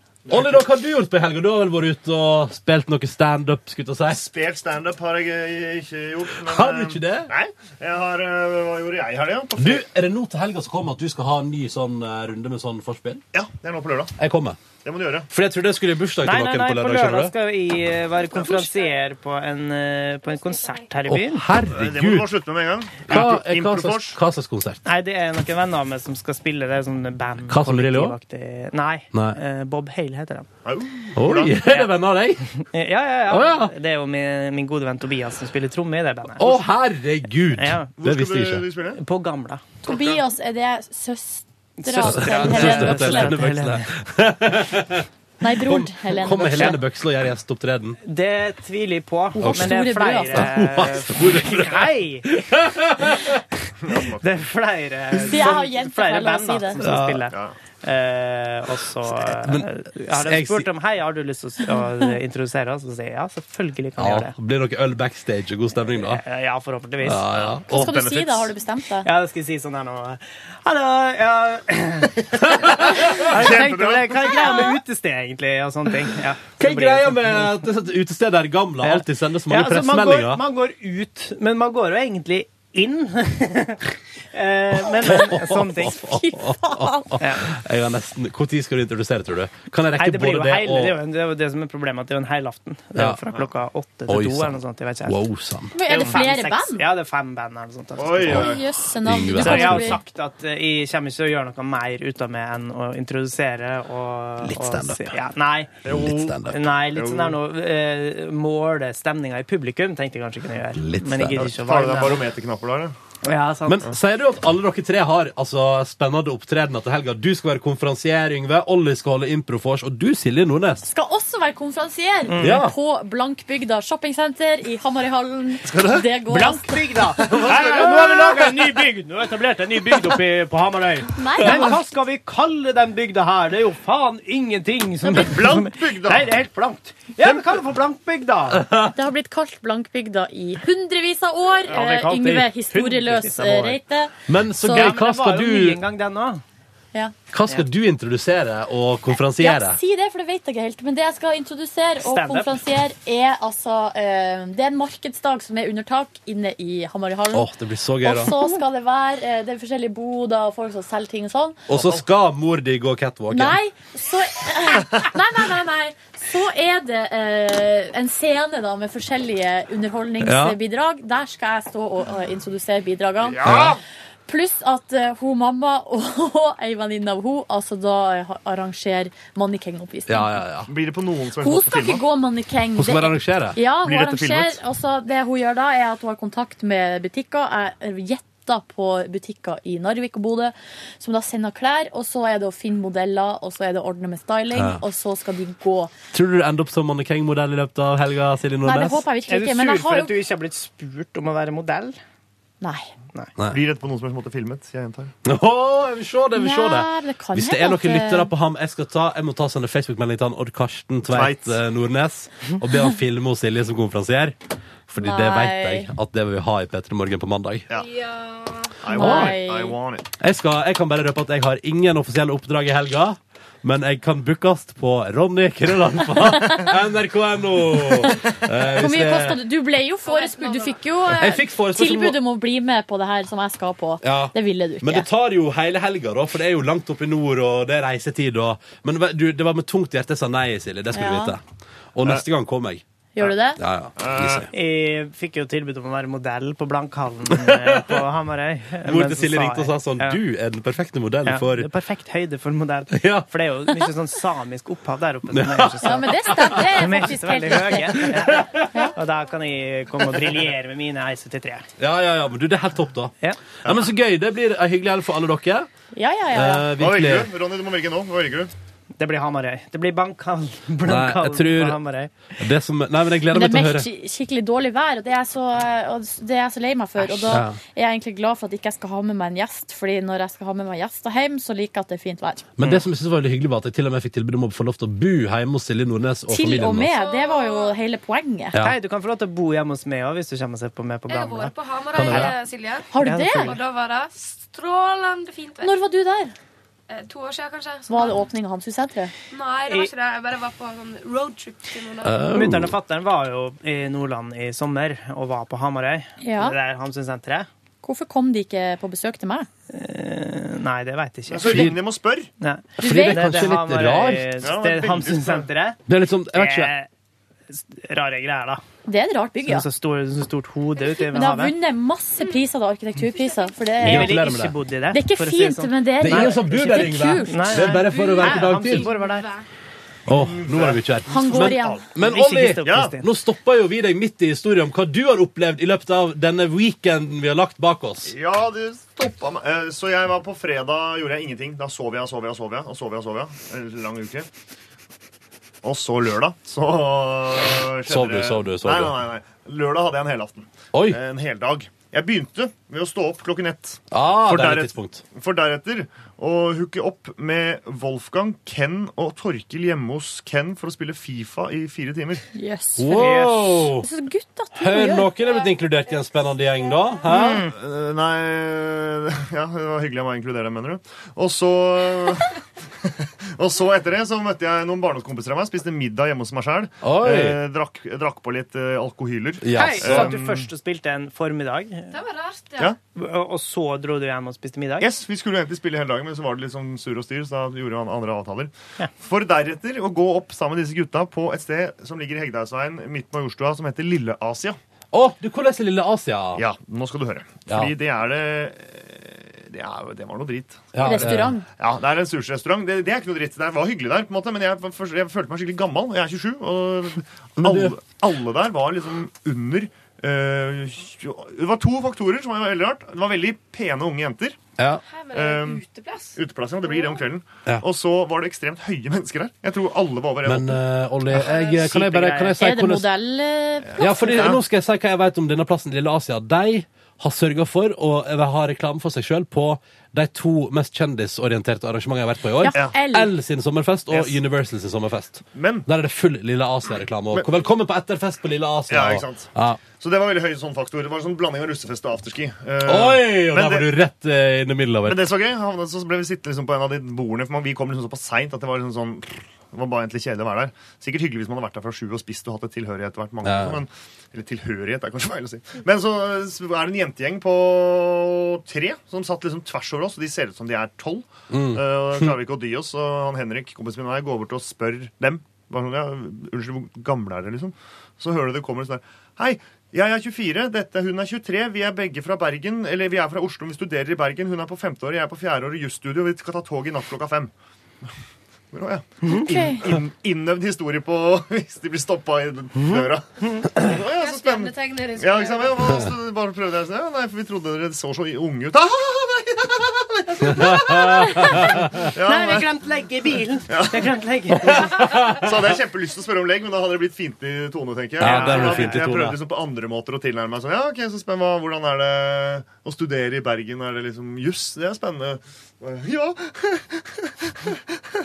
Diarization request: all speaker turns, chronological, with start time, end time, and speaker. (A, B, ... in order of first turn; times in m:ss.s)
0:00.2-0:00.7 A
0:00.3-0:04.2 B
0:04.1-0:09.8 A
0:06.4-0:07.3 B
0:09.6-0:13.2 B
0:13.3-0:14.1 A
0:14.2-0:14.6 B
0:14.8-0:15.3 A
0:15.3-0:17.3 B
0:16.2-0:21.4 C
0:18.4-0:18.8 D
0:20.2-0:20.9 D
0:21.1-0:22.3 B
0:21.7-0:24.2 A
0:23.1-0:24.8 B
0:24.8-0:30.5 C
0:27.5-0:28.2 B
0:30.6-0:31.6 A
0:31.2-0:32.5 B
0:32.6-0:36.6 C
0:33.3-0:33.7 B
0:36.4-0:38.6 B
0:37.6-0:37.9 C
0:38.0-0:39.0 A
0:39.0-0:39.6 C
0:39.8-0:43.4 E
0:41.8-0:43.9 C
0:42.0-0:48.0 B
0:45.4-0:46.8 E
0:48.0-0:52.4 C
0:49.3-0:50.5 E
0:49.4-0:53.4 B
0:53.8-0:54.4 A
0:54.2-1:04.3 C
0:55.3-0:56.8 E
0:56.8-0:57.2 B
0:57.3-0:57.5 A
0:59.1-1:00.7 B
1:04.0-1:06.2 B
1:05.9-1:07.6 C
1:07.0-1:07.6 B
1:07.7-1:08.5 A
1:07.7-1:09.1 E
1:09.0-1:17.5 C
1:12.8-1:14.4 A
1:16.6-1:20.4 B
1:18.8-1:26.0 C
1:24.9-1:31.0 B
1:26.1-1:27.1 E
1:27.2-1:27.6 C
1:29.9-1:35.2 C
1:32.9-1:33.2 B
1:34.1-1:35.7 B
1:35.7-1:36.8 E
1:35.9-1:38.4 C
1:38.0-1:38.7 A
1:38.3-1:40.0 E
1:39.0-1:40.0 B
1:39.3-1:45.9 C
1:44.4-1:45.2 B
1:45.8-1:47.4 A
1:45.9-1:46.6 B
1:46.4-1:52.3 C
1:50.7-1:51.5 B
1:51.4-1:53.0 A
1:53.2-1:53.9 C
1:53.6-2:00.9 B
2:00.8-2:06.8 E
2:02.3-2:02.6 C
2:02.4-2:02.7 B
2:05.7-2:06.0 A
2:06.3-2:18.6 C
2:07.2-2:08.6 A
2:11.1-2:11.8 E
2:15.0-2:16.3 A
2:18.5-2:18.9 B
2:18.9-2:24.9 E
2:21.7-2:23.8 C
2:24.3-2:25.8 B
2:24.6-2:26.4 C
2:27.3-2:29.8 B
2:29.4-2:41.6 E
2:32.0-2:32.6 C
2:37.3-2:38.4 B
2:41.7-2:43.6 B
2:41.7-2:42.0 A
2:43.3-2:53.7 E
2:50.2-2:50.6 B
2:53.2-2:53.8 A
2:53.4-2:53.8 B
2:54.3-3:00.4 E
3:00.1-3:00.7 B
3:00.7-3:02.0 A
3:01.4-3:15.9 E
3:02.8-3:03.6 B
3:03.8-3:04.6 A
3:14.5-3:14.8 B
3:16.1-3:19.0 B
3:18.6-3:20.1 E
3:19.3-3:22.0 C
3:22.6-3:22.9 E
3:23.4-3:25.1 A
3:25.2-3:34.4 B
3:26.4-3:28.3 E
3:31.1-3:31.6 A
3:34.9-3:37.6 B
3:35.0-3:35.9 E
3:37.7-3:38.7 D
3:38.8-3:40.0 A
3:38.9-3:39.7 E
3:39.0-3:39.4 B
3:40.2-3:49.4 B
3:48.8-3:55.1 E
3:50.0-3:50.8 D
3:51.1-3:52.2 B
3:54.0-4:01.4 B
4:00.9-4:01.4 E
4:01.9-4:02.8 B
4:03.2-4:03.6 E
4:03.6-4:04.5 B
4:04.0-4:04.5 A
4:04.5-4:10.2 C
4:07.3-4:08.0 B
4:08.8-4:11.7 B
4:11.2-4:21.7 C
4:12.9-4:13.9 B
4:15.3-4:16.8 B
4:15.8-4:18.1 E
4:18.1-4:18.7 B
4:21.8-4:23.1 B
4:23.6-4:23.9 A
4:23.6-4:25.7 B
4:25.9-4:26.7 E
4:26.3-4:27.3 B
4:26.8-4:28.5 A
4:29.0-4:32.1 C
4:30.8-4:31.8 B
4:32.4-4:33.9 B
4:33.3-4:42.4 E
4:37.3-4:37.6 B
4:42.6-4:46.9 B
4:46.3-4:48.6 E
4:46.9-4:47.7 D
4:48.6-4:52.4 C
4:51.1-4:55.7 D
4:51.9-4:52.3 B
4:52.9-4:53.6 E
4:53.0-4:53.6 C
4:55.6-4:56.3 E
4:56.9-4:58.2 D
4:57.9-4:59.1 E
4:59.3-5:02.2 D
5:02.0-5:02.8 B
5:02.3-5:07.5 C
5:06.2-5:06.6 E
5:07.8-5:09.5 E
5:09.7-5:11.8 C
5:11.3-5:12.3 A
5:11.5-5:11.8 B
5:12.4-5:15.8 C
5:12.8-5:14.4 B
5:12.8-5:13.3 E
5:14.4-5:15.5 A
5:15.9-5:16.7 B
5:16.3-5:16.9 C
5:17.5-5:18.6 C
5:18.8-5:19.6 E
5:19.4-5:21.5 C
5:20.8-5:21.0 D
5:21.1-5:24.2 E
5:23.1-5:23.6 D
5:23.8-5:29.3 C
5:23.8-5:24.6 B
5:24.9-5:27.6 E
5:26.0-5:28.9 B
5:27.9-5:29.4 D
5:30.1-5:38.1 B
5:30.1-5:32.0 A
5:31.1-5:31.8 E
5:32.0-5:33.0 C
5:32.6-5:32.9 A
5:38.0-5:44.3 A
5:45.6-6:02.2 A
5:47.9-5:49.0 B
5:50.7-5:51.0 B
5:53.9-5:55.0 B
6:02.3-6:03.2 E
6:02.8-6:03.8 B
6:03.0-6:03.6 C
6:03.8-6:05.1 E
6:04.6-6:07.4 B
6:05.2-6:07.0 D
6:07.1-6:07.5 C
6:07.1-6:12.3 A
6:12.8-6:20.5 A
6:16.8-6:17.4 B
6:19.4-6:20.1 B
6:19.5-6:22.0 C
6:21.9-6:22.7 D
6:22.9-6:24.9 C
6:24.8-6:34.6 A
6:34.9-6:36.4 B
6:36.4-6:54.4 A
6:40.7-6:41.4 B
6:40.8-6:41.4 E
6:47.4-6:47.8 B
6:54.6-6:54.8 B
6:54.8-6:57.0 D
6:55.1-7:00.6 A
7:00.2-7:02.9 B
7:01.2-7:01.7 D
7:01.6-7:02.3 C
7:02.3-7:04.3 E
7:03.8-7:19.6 B
7:04.0-7:04.4 A
7:12.4-7:13.1 E
7:13.9-7:14.2 A
7:15.3-7:15.6 A
7:18.7-7:23.7 A
7:22.6-7:25.0 B
7:24.8-7:57.3 A
7:33.2-7:33.6 B
7:41.3-7:42.1 B
7:58.5-8:12.5 A
7:59.1-7:59.7 E
8:03.6-8:05.9 D
8:10.4-8:11.6 B
8:12.0-8:14.9 C
8:13.5-8:27.6 A
8:14.5-8:14.8 B
8:18.0-8:19.2 B
8:18.0-8:18.8 C